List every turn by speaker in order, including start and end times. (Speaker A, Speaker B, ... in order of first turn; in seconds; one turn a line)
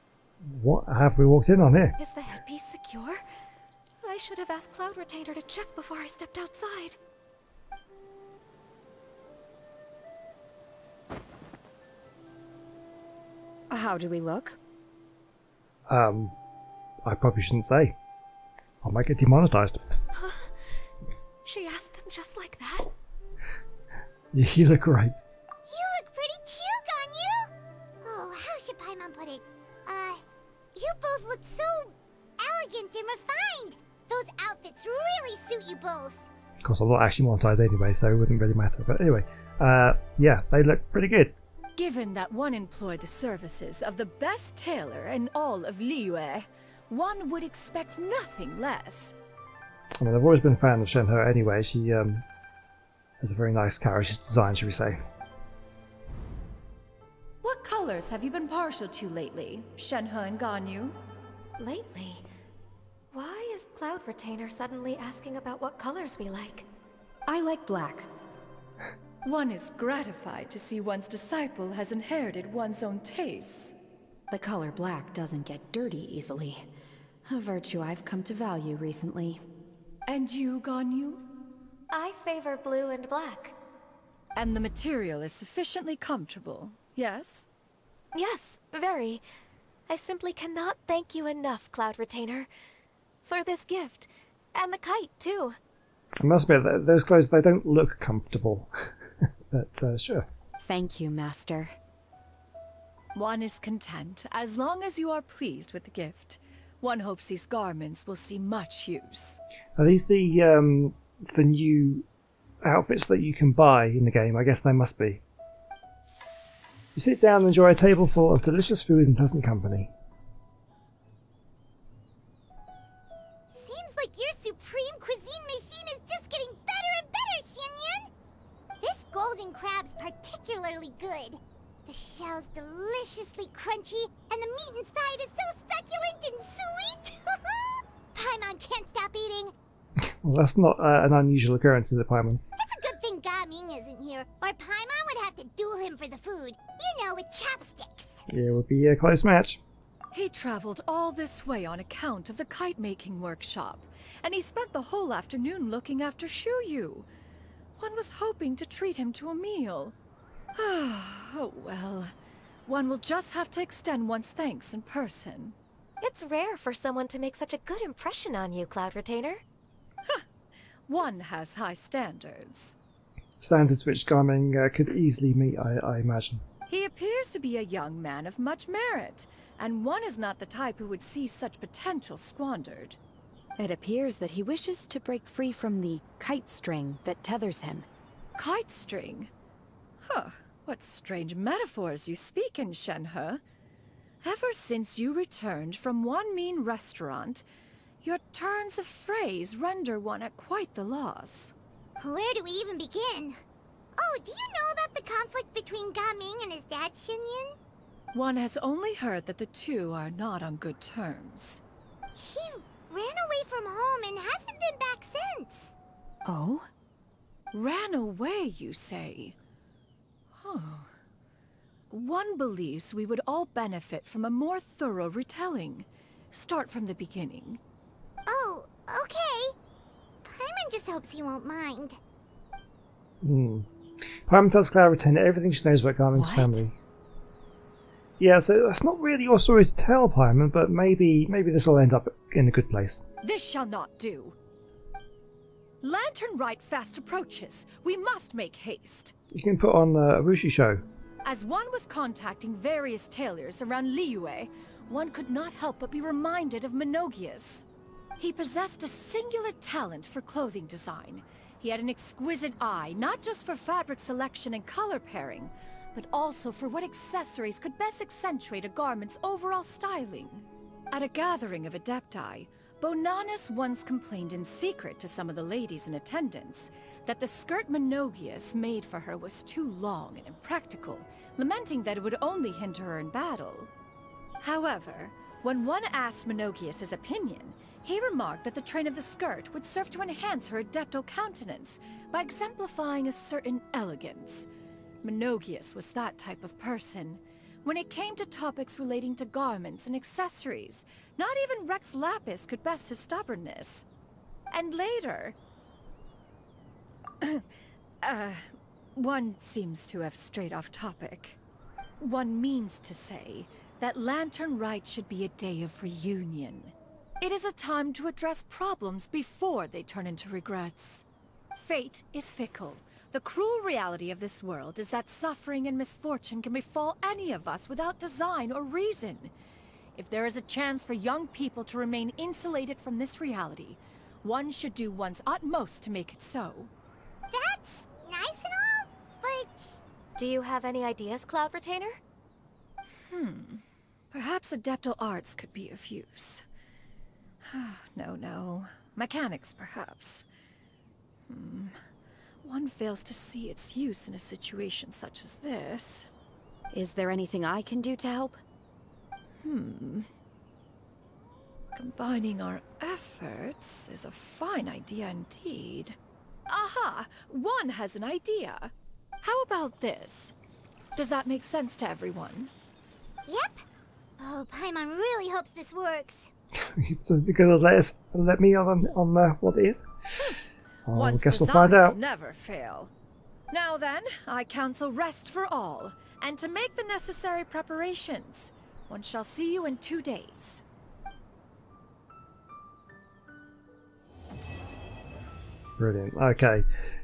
Speaker A: 0.4-2.0
Speaker B: 2.0-3.2
Speaker B: 4.0-7.0
Speaker C: 13.7-14.6
Speaker A: 15.9-16.4
Speaker A: 17.1-18.0
Speaker A: 18.8-19.8
Speaker B: 20.1-20.5
Speaker B: 21.4-22.9
Speaker A: 24.3-25.2
Speaker D: 25.7-27.5
Speaker D: 28.0-30.2
Speaker D: 30.8-36.2
Speaker A: 36.6-41.4
Speaker E: 41.8-49.2
Speaker A: 50.0-52.2
Speaker A: 53.2-55.0
Speaker E: 57.4-61.0
Speaker B: 61.6-62.2
Speaker B: 63.1-66.7
Speaker C: 67.3-68.1
Speaker E: 69.2-73.7
Speaker C: 74.3-76.7
Speaker C: 77.3-79.4
Speaker E: 80.1-81.3
Speaker B: 81.9-83.5
Speaker E: 84.4-87.5
Speaker B: 88.2-89.2
Speaker B: 89.9-92.5
Speaker B: 93.2-95.6
Speaker A: 96.2-98.7
Speaker A: 99.5-100.3
Speaker C: 100.6-101.8
Speaker E: 103.1-109.4
Speaker A: 109.8-112.1
Speaker A: 112.6-115.2
Speaker A: 117.0-119.9
Speaker D: 123.5-128.1
Speaker D: 128.8-139.5
Speaker A: 140.0-142.4
Speaker D: 142.6-148.2
Speaker A: 148.3-149.6
Speaker E: 150.1-157.1
Speaker E: 157.8-160.0
Speaker E: 160.6-162.1
Speaker E: 162.7-165.6
Speaker B: 166.0-169.4
Speaker E: 170.9-172.8
Speaker A: 173.4-176.4
Speaker E: 176.7-183.0
Speaker C: 183.6-187.9
Speaker E: 188.4-189.3
Speaker E: 190.0-193.4
Speaker E: 194.2-197.4
Speaker E: 198.0-201.5
Speaker D: 202.0-203.4
Speaker D: 204.0-207.6
Speaker E: 208.1-211.6
Speaker D: 212.2-215.7
Speaker C: 216.2-216.7
Speaker E: 217.5-219.4
Speaker E: 220.4-220.9
Speaker E: 221.9-227.6
Speaker D: 228.3-229.6
Speaker D: 230.2-232.0
Speaker A: 233.2-233.7
Speaker A: 234.3-236.8
Speaker C: 236.1-236.6
Speaker A: 238.2-243.0
Speaker E: 243.2-244.4
Speaker E: 245.8-249.1
Speaker A: 249.3-250.8
Speaker E: 251.2-257.7
Speaker E: 258.2-283.7
Speaker E: 284.4-294.5
Speaker E: 295.0-303.9
Speaker E: 304.5-305.4
Speaker E: 308.0-311.4
Speaker E: 312.0-329.3
Speaker E: 329.9-336.7
Speaker D: 337.3-339.8
Speaker B: 340.2-342.0
Speaker E: 343.1-346.4
Speaker E: 347.5-350.3
Speaker E: 351.3-351.8
Speaker E: 352.4-356.1
Speaker C: 356.7-358.4
Speaker E: 359.4-360.1
Speaker E: 361.8-366.0
Speaker E: 366.5-370.3
Speaker E: 370.9-372.5
Speaker D: 373.3-373.6
Speaker D: 374.2-376.3
Speaker A: 376.7-379.9
Speaker A: 380.9-382.0
Speaker E: 380.9-382.9
Speaker E: 383.5-390.6
Speaker A: 395.8-396.7